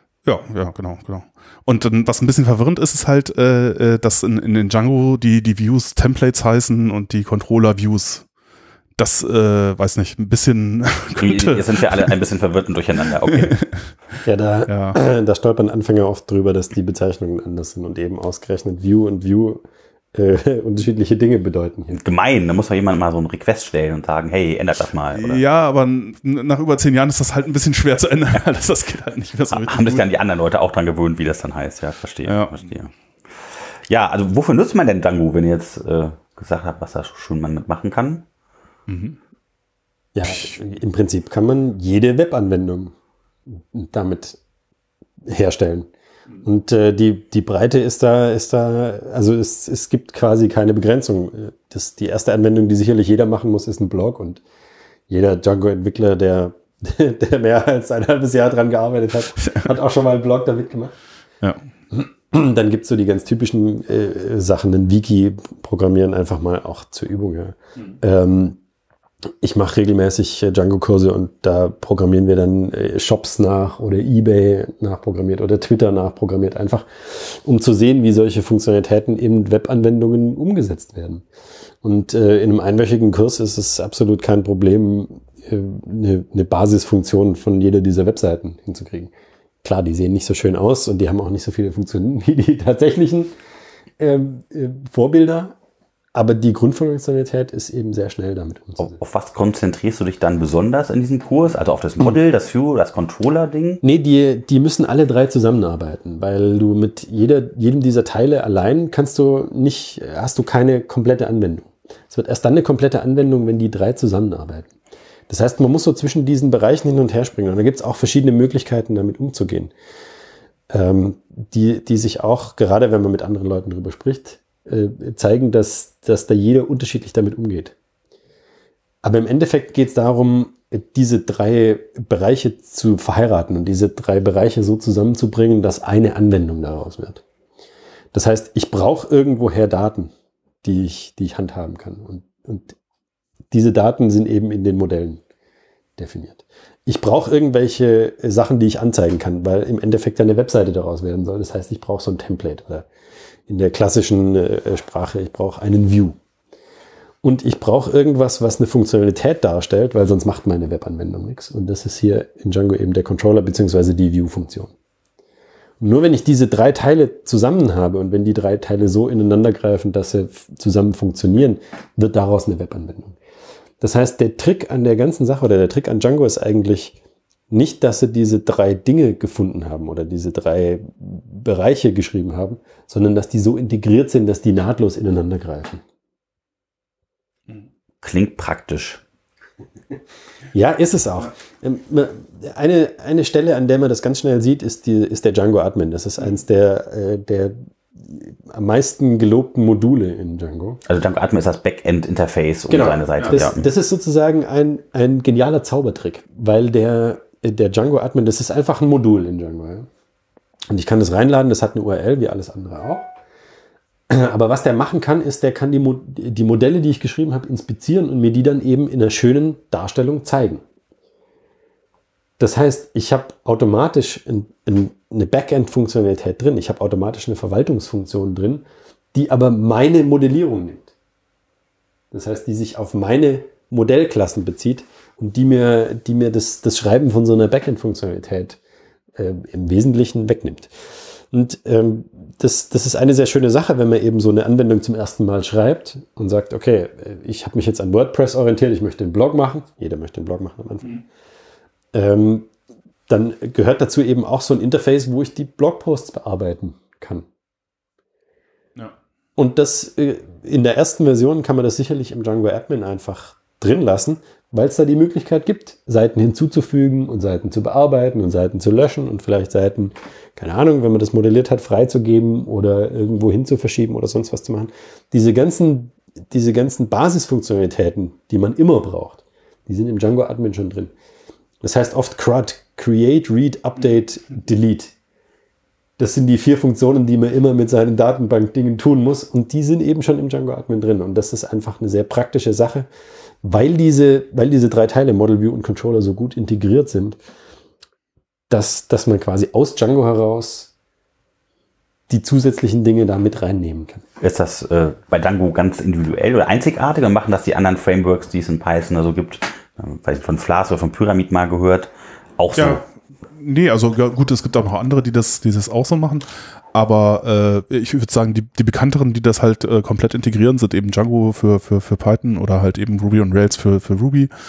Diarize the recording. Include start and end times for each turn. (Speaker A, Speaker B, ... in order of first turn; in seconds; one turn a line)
Speaker A: 0.3-8.2
Speaker A: 9.0-12.1
Speaker B: 11.2-13.6
Speaker A: 13.3-13.9
Speaker C: 14.2-19.6
Speaker A: 14.7-15.0
Speaker C: 20.1-22.0
Speaker B: 21.9-25.4
Speaker A: 25.1-30.1
Speaker B: 29.5-32.9
Speaker A: 32.3-32.7
Speaker B: 33.9-38.2
Speaker A: 38.9-39.2
Speaker C: 40.1-42.9
Speaker A: 40.3-40.5
Speaker C: 43.6-44.4
Speaker C: 45.2-45.9
Speaker C: 46.4-54.4
Speaker C: 55.1-61.0
Speaker C: 61.9-68.6
Speaker C: 69.4-81.2
Speaker C: 81.8-89.1
Speaker C: 89.6-93.3
Speaker C: 94.0-95.5
Speaker C: 96.1-99.0
Speaker B: 98.8-103.8
Speaker C: 103.8-114.7
Speaker C: 115.3-119.7
Speaker C: 120.7-127.7
Speaker C: 129.0-137.2
Speaker C: 138.1-140.1
Speaker C: 140.6-142.8
Speaker C: 143.5-145.2
Speaker C: 146.0-152.9
Speaker C: 153.5-156.2
Speaker C: 157.2-164.7
Speaker C: 165.8-173.2
Speaker C: 173.8-177.0
Speaker C: 177.5-185.8
Speaker B: 188.0-189.0
Speaker C: 190.5-200.8
Speaker B: 200.9-203.7
Speaker C: 202.7-209.9
Speaker C: 210.7-213.1
Speaker C: 214.1-220.6
Speaker C: 222.4-230.9
Speaker C: 232.1-238.6
Speaker C: 239.2-240.7
Speaker C: 241.3-250.9
Speaker C: 251.9-252.5
Speaker C: 253.1-257.3
Speaker C: 259.4-280.9
Speaker C: 281.6-284.9
Speaker C: 286.0-292.9
Speaker C: 293.4-297.2
Speaker C: 298.5-300.7
Speaker C: 302.1-304.0
Speaker B: 304.2-312.8
Speaker A: 312.6-324.3